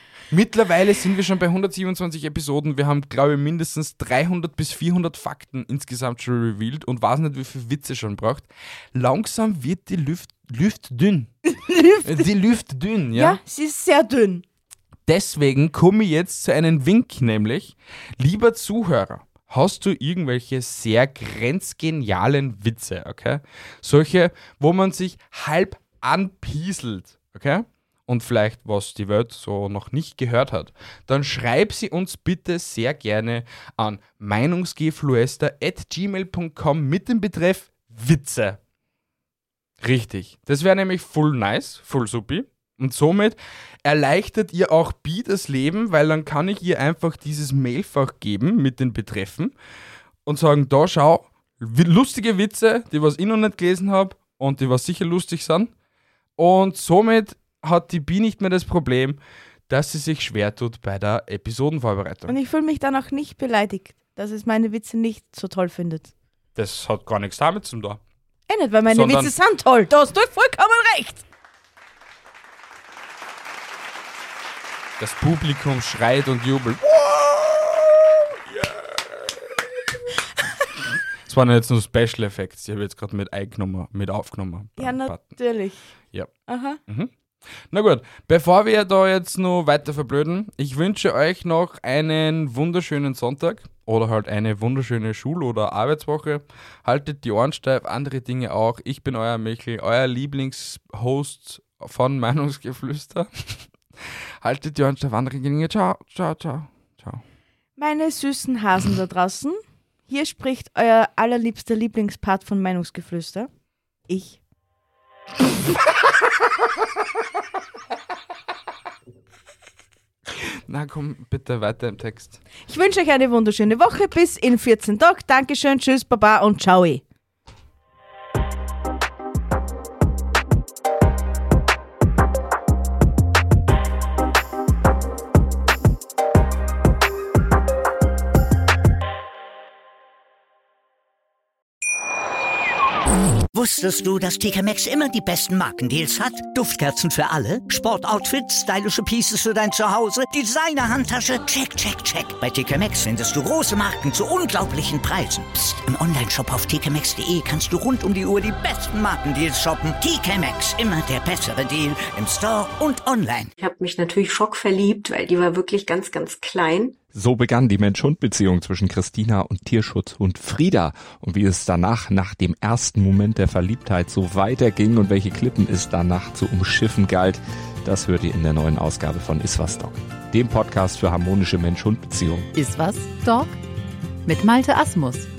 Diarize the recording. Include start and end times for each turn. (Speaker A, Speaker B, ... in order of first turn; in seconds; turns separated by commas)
Speaker A: 0.3-11.3, Speaker B: 11.5-12.3, Speaker A: 12.0-13.4, Speaker B: 13.1-14.4, Speaker A: 15.1-38.6, Speaker A: 39.8-49.5, Speaker A: 50.2-55.7, Speaker A: 56.4-62.4, Speaker B: 62.3-66.1, Speaker A: 66.5-68.0, Speaker B: 68.5-71.2, Speaker A: 68.9-69.3, Speaker A: 75.0-79.6, Speaker A: 81.2-85.3, Speaker B: 84.8-85.9, Speaker B: 86.5-86.8, Speaker A: 87.7-103.6, Speaker A: 104.4-107.2, Speaker B: 107.8-113.5, Speaker B: 114.1-114.4, Speaker A: 120.3-122.4, Speaker B: 122.7-127.0, Speaker C: 143.5-163.5, Speaker D: 163.6-167.0, Speaker E: 167.1-182.5, Speaker F: 182.5-183.6, Speaker F: 184.2-185.3